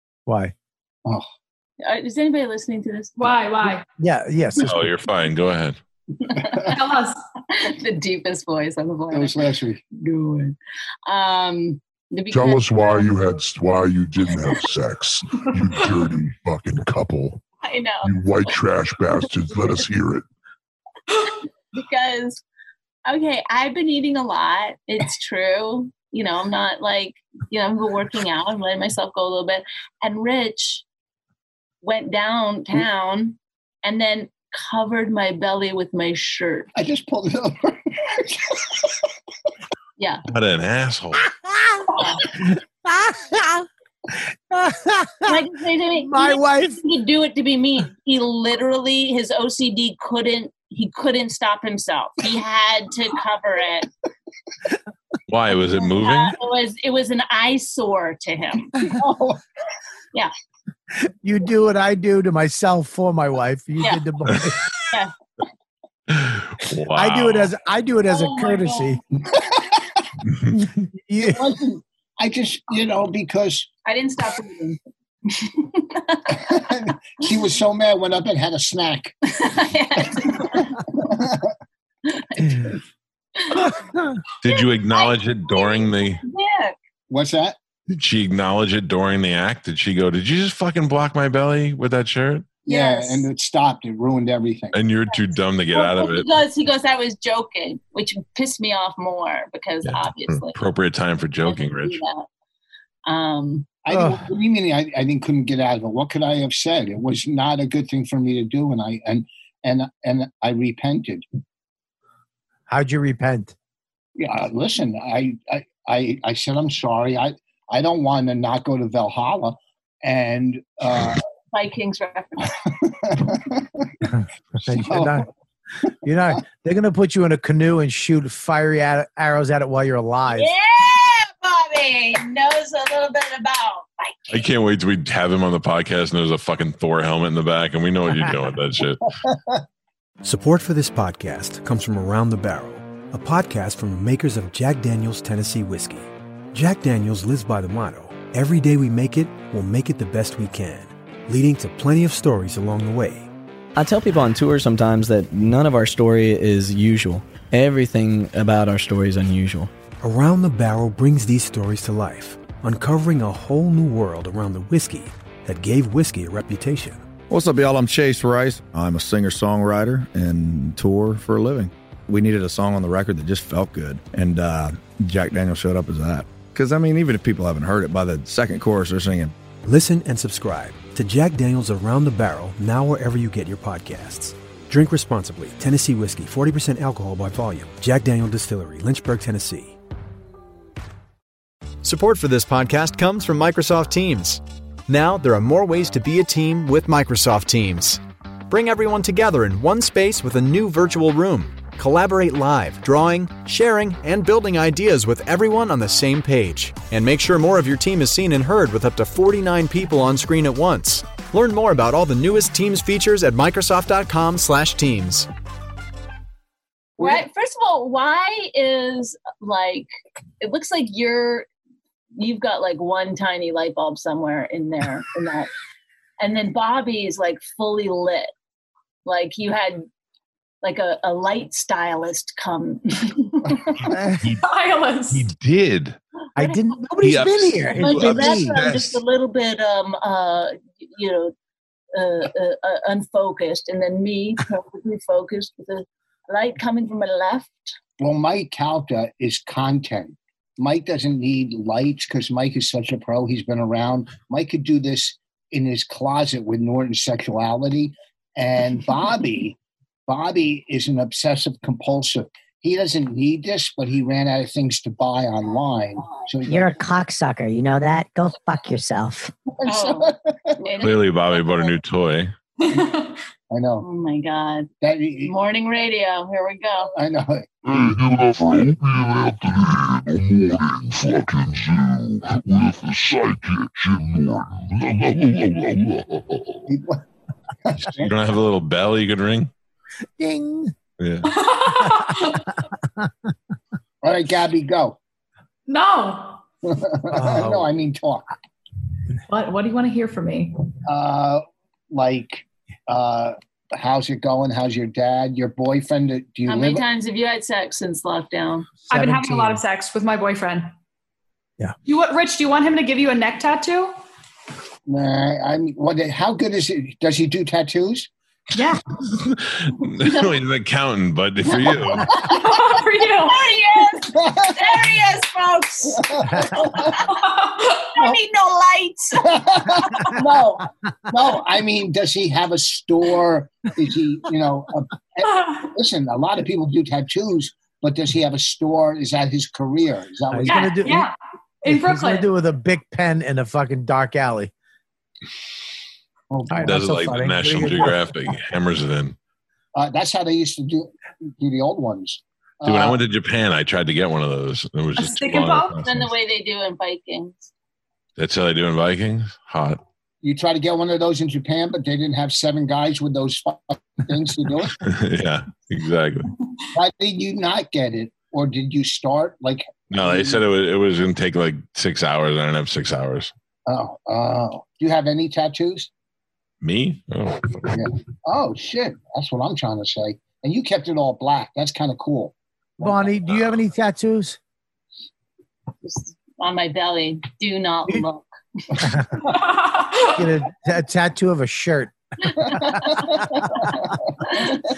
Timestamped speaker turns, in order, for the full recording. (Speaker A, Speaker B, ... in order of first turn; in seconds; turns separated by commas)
Speaker A: 0.3-0.5, Speaker B: 1.8-3.4, Speaker C: 3.2-3.8, Speaker A: 4.0-4.9, Speaker D: 4.6-5.8, Speaker B: 6.2-6.8, Speaker C: 6.6-7.2, Speaker B: 7.5-9.3, Speaker E: 9.1-9.8, Speaker B: 9.9-13.1, Speaker F: 12.3-17.4, Speaker B: 17.6-18.5, Speaker F: 18.0-20.2, Speaker B: 21.7-22.4, Speaker B: 23.0-30.8, Speaker B: 31.8-36.7, Speaker E: 36.8-39.0, Speaker B: 40.0-40.2, Speaker D: 40.3-41.2, Speaker A: 41.5-41.9, Speaker B: 42.0-42.3, Speaker A: 42.9-43.6, Speaker A: 44.5-45.3, Speaker B: 45.2-53.9, Speaker A: 46.0-46.8, Speaker D: 55.3-56.4, Speaker B: 55.8-58.9, Speaker E: 58.9-59.4, Speaker A: 61.0-64.6, Speaker D: 66.1-67.5, Speaker A: 66.9-69.0, Speaker B: 68.1-69.0, Speaker E: 69.3-69.6, Speaker A: 71.0-71.4, Speaker E: 71.2-73.7, Speaker B: 73.8-76.6, Speaker E: 76.4-79.1, Speaker B: 79.3-80.8, Speaker E: 80.9-81.5, Speaker B: 82.0-82.8, Speaker B: 83.3-83.8, Speaker D: 84.4-86.2, Speaker B: 84.4-86.8, Speaker E: 87.1-87.6, Speaker D: 87.9-92.5, Speaker E: 92.6-94.8, Speaker B: 92.7-93.3, Speaker D: 94.7-96.3, Speaker B: 95.1-100.5, Speaker D: 99.8-102.0, Speaker B: 101.4-102.2, Speaker B: 103.0-103.7, Speaker E: 103.8-111.2, Speaker A: 103.9-104.2, Speaker A: 112.7-113.5, Speaker E: 114.2-121.2, Speaker B: 121.5-122.7, Speaker E: 123.0-123.9, Speaker A: 124.1-125.3, Speaker E: 124.7-125.3, Speaker A: 126.0-130.5, Speaker B: 130.3-134.4, Speaker D: 134.3-139.1, Speaker E: 139.2-139.6, Speaker G: 140.2-153.3, Speaker H: 153.7-159.7, Speaker G: 160.0-167.0, Speaker I: 167.3-179.3, Speaker G: 179.6-189.8, Speaker J: 191.8-215.3, Speaker E: 217.0-217.2, Speaker B: 217.0-219.9, Speaker B: 220.4-221.4, Speaker B: 222.2-225.5, Speaker B: 226.2-228.3, Speaker B: 229.0-229.8, Speaker B: 230.6-233.9, Speaker C: 234.4-235.3, Speaker D: 235.1-236.0, Speaker A: 236.3-238.6, Speaker B: 236.4-236.7, Speaker D: 237.0-239.0, Speaker B: 237.8-241.3, Speaker B: 241.9-247.7, Speaker E: 248.0-266.8, Speaker K: 266.4-269.3, Speaker E: 269.6-270.9, Speaker B: 269.6-271.7, Speaker D: 270.8-272.3, Speaker C: 272.6-273.1, Speaker E: 273.5-273.9, Speaker B: 273.8-274.7, Speaker E: 274.8-275.3, Speaker B: 275.2-276.9, Speaker E: 276.9-277.6, Speaker F: 277.7-286.6, Speaker E: 286.7-287.0, Speaker E: 287.6-288.1, Speaker D: 287.8-289.5, Speaker A: 290.2-290.7, Speaker D: 291.0-291.3, Speaker C: 291.2-292.5, Speaker E: 294.0-295.0, Speaker C: 295.7-296.4, Speaker E: 296.6-298.2, Speaker A: 297.1-297.7, Speaker C: 299.3-300.6, Speaker E: 300.9-306.8, Speaker B: 306.4-308.7, Speaker C: 308.9-310.7, Speaker A: 308.9-309.6, Speaker C: 311.9-313.9, Speaker E: 314.9-318.1, Speaker C: 318.5-318.8, Speaker D: 319.1-322.2, Speaker B: 321.5-330.1, Speaker C: 322.2-323.5, Speaker E: 324.1-324.9, Speaker E: 325.9-327.0, Speaker C: 327.2-327.6, Speaker E: 329.2-340.8, Speaker C: 335.2-335.6, Speaker A: 340.3-341.1, Speaker C: 340.4-342.3, Speaker A: 341.6-344.5, Speaker E: 346.3-347.0, Speaker A: 346.5-348.0, Speaker D: 346.6-349.1, Speaker E: 349.7-353.0, Speaker D: 352.6-356.1, Speaker C: 355.0-355.8, Speaker B: 355.8-357.5, Speaker D: 358.2-359.8, Speaker E: 360.2-364.8, Speaker D: 364.8-366.3, Speaker E: 366.7-370.4, Speaker D: 369.9-373.3, Speaker E: 373.7-375.9, Speaker D: 376.6-377.9, Speaker E: 377.7-383.2, Speaker A: 382.8-384.4, Speaker B: 385.8-388.8, Speaker A: 388.8-389.1, Speaker C: 389.3-390.1, Speaker A: 390.1-391.9, Speaker A: 392.5-393.0, Speaker B: 392.8-393.6, Speaker B: 394.2-394.6